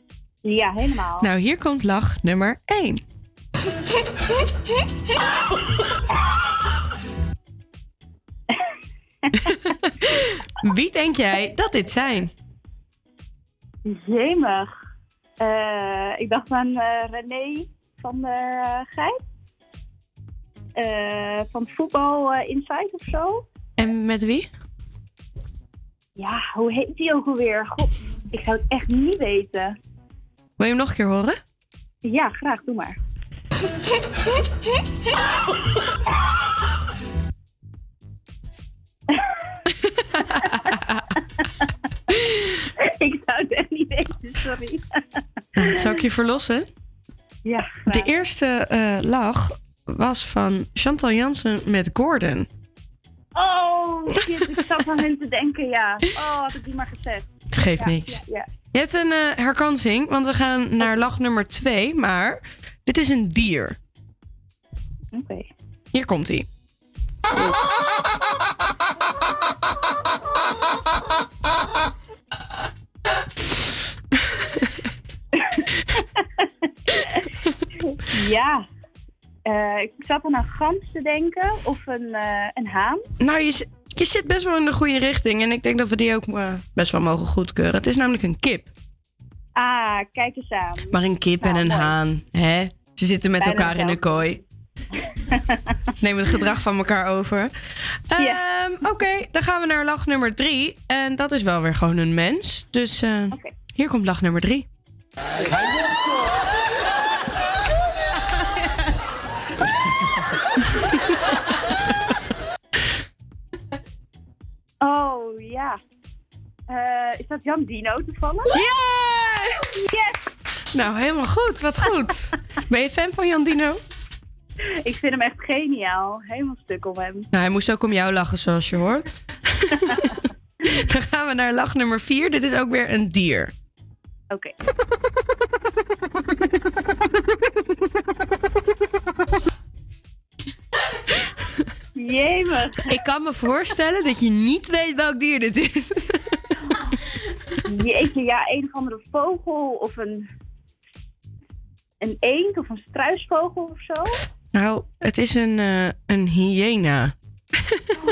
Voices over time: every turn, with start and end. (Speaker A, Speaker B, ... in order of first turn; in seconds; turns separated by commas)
Speaker A: 0.5-1.3, Speaker B: 1.2-3.0, Speaker B: 9.4-12.3, Speaker A: 13.9-14.7, Speaker A: 15.4-19.2, Speaker A: 20.8-23.4, Speaker B: 23.8-24.5, Speaker A: 26.2-29.8, Speaker B: 30.6-31.4, Speaker A: 32.0-33.0, Speaker A: 42.9-44.8, Speaker B: 45.6-46.7, Speaker A: 47.5-48.1, Speaker B: 47.9-52.5, Speaker A: 53.4-58.5, Speaker B: 57.5-58.2, Speaker B: 58.7-63.8, Speaker A: 65.1-65.5, Speaker B: 65.9-66.5, Speaker A: 78.1-78.7, Speaker A: 79.5-83.0, Speaker B: 83.2-88.7, Speaker A: 89.6-90.9, Speaker B: 90.9-94.4, Speaker A: 91.4-92.0, Speaker A: 93.4-94.3, Speaker B: 96.0-97.5, Speaker B: 98.1-104.7, Speaker A: 114.8-115.8, Speaker A: 116.7-118.6, Speaker B: 118.5-119.6, Speaker A: 119.8-120.1, Speaker B: 120.7-123.8, Speaker A: 124.8-127.3, Speaker B: 127.3-129.1, Speaker B: 130.7-133.5, Speaker A: 142.0-142.8, Speaker B: 142.9-146.2, Speaker A: 147.7-150.2, Speaker A: 152.0-154.1, Speaker B: 154.5-157.1